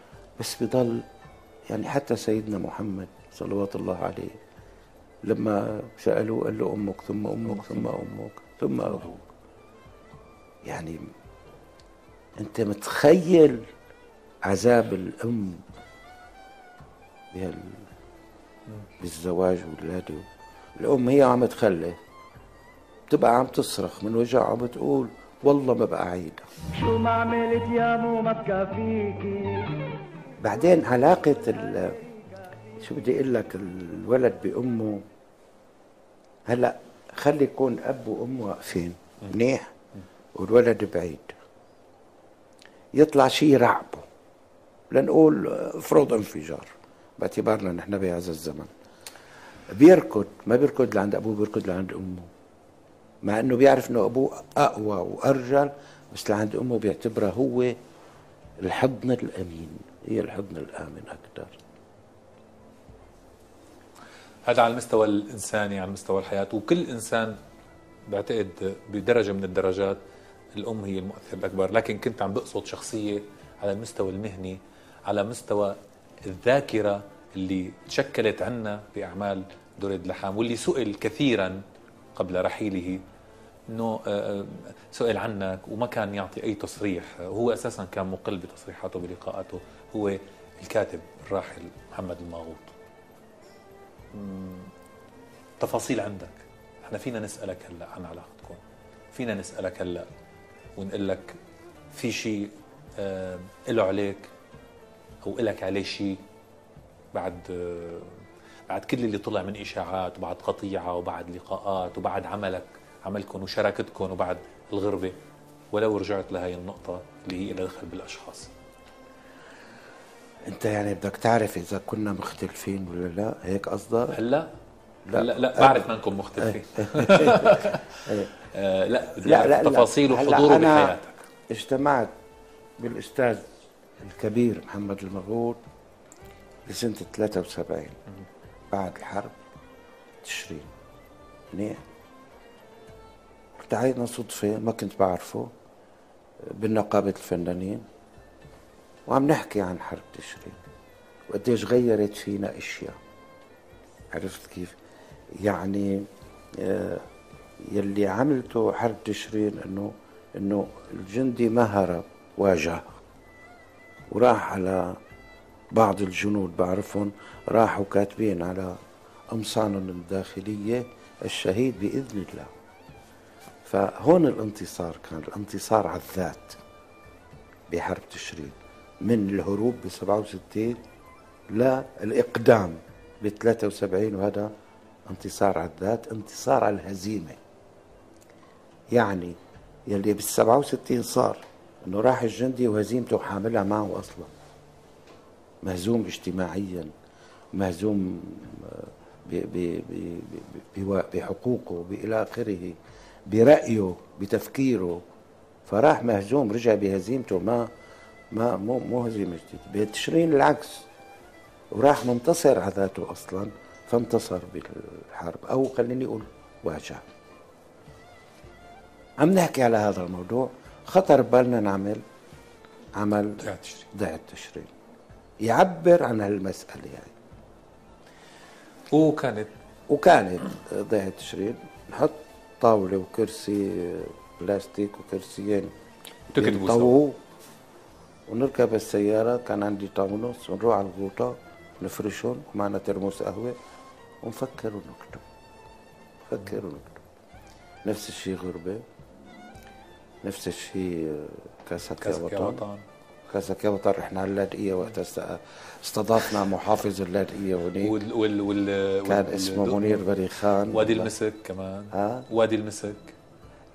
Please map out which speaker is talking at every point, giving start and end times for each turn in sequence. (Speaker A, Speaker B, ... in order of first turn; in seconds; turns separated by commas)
Speaker A: 0.4-1.1, Speaker A: 1.7-4.4, Speaker A: 5.2-9.1, Speaker B: 8.9-9.2, Speaker A: 10.6-11.0, Speaker A: 12.4-13.7, Speaker A: 14.4-15.6, Speaker A: 17.3-17.9, Speaker A: 19.0-20.3, Speaker A: 20.8-22.0, Speaker A: 23.1-26.5, Speaker C: 26.8-29.7, Speaker A: 30.4-32.0, Speaker A: 32.8-35.0, Speaker A: 36.5-39.7, Speaker A: 40.4-41.4, Speaker A: 43.0-44.1, Speaker A: 44.9-48.7, Speaker A: 49.7-52.3, Speaker A: 53.2-57.7, Speaker A: 58.6-61.6, Speaker B: 64.5-67.4, Speaker B: 68.1-70.0, Speaker B: 70.5-81.6, Speaker B: 82.1-83.0, Speaker B: 83.7-92.7, Speaker B: 94.1-94.7, Speaker B: 95.6-98.6, Speaker B: 99.1-100.1, Speaker B: 100.8-101.4, Speaker B: 101.9-104.3, Speaker B: 105.2-106.2, Speaker B: 107.1-115.2, Speaker B: 115.7-118.5, Speaker A: 120.4-124.2, Speaker B: 124.1-124.5, Speaker A: 125.1-128.3, Speaker B: 125.1-131.2, Speaker A: 129.2-132.1, Speaker A: 132.8-135.6, Speaker A: 136.7-138.0, Speaker A: 138.7-139.3, Speaker A: 140.2-140.7, Speaker A: 141.5-141.8, Speaker A: 143.6-145.5, Speaker A: 146.4-147.9, Speaker A: 149.1-150.6, Speaker A: 151.3-153.0, Speaker A: 154.1-154.8, Speaker A: 155.4-157.1, Speaker A: 157.6-163.0, Speaker A: 164.1-165.0, Speaker A: 165.7-168.8, Speaker A: 169.3-172.5, Speaker A: 173.6-176.6, Speaker A: 177.7-180.8, Speaker A: 181.5-184.5, Speaker A: 185.1-187.4, Speaker A: 188.9-189.4, Speaker A: 189.9-194.3, Speaker A: 195.6-196.9, Speaker A: 197.5-202.8, Speaker A: 203.3-205.0, Speaker A: 205.7-207.7, Speaker A: 208.3-210.9, Speaker A: 211.7-217.1, Speaker A: 219.2-222.0, Speaker A: 222.9-224.7, Speaker B: 223.4-223.9, Speaker A: 225.4-227.1, Speaker B: 228.9-229.5, Speaker A: 229.9-235.7, Speaker A: 236.3-237.2, Speaker B: 236.4-237.0, Speaker A: 238.3-243.6, Speaker A: 244.2-245.2, Speaker A: 246.3-247.0, Speaker A: 247.8-248.8, Speaker A: 250.2-252.6, Speaker B: 252.0-252.8, Speaker A: 253.3-257.9, Speaker B: 257.8-260.0, Speaker A: 259.1-261.1, Speaker B: 260.7-263.1, Speaker A: 261.9-262.3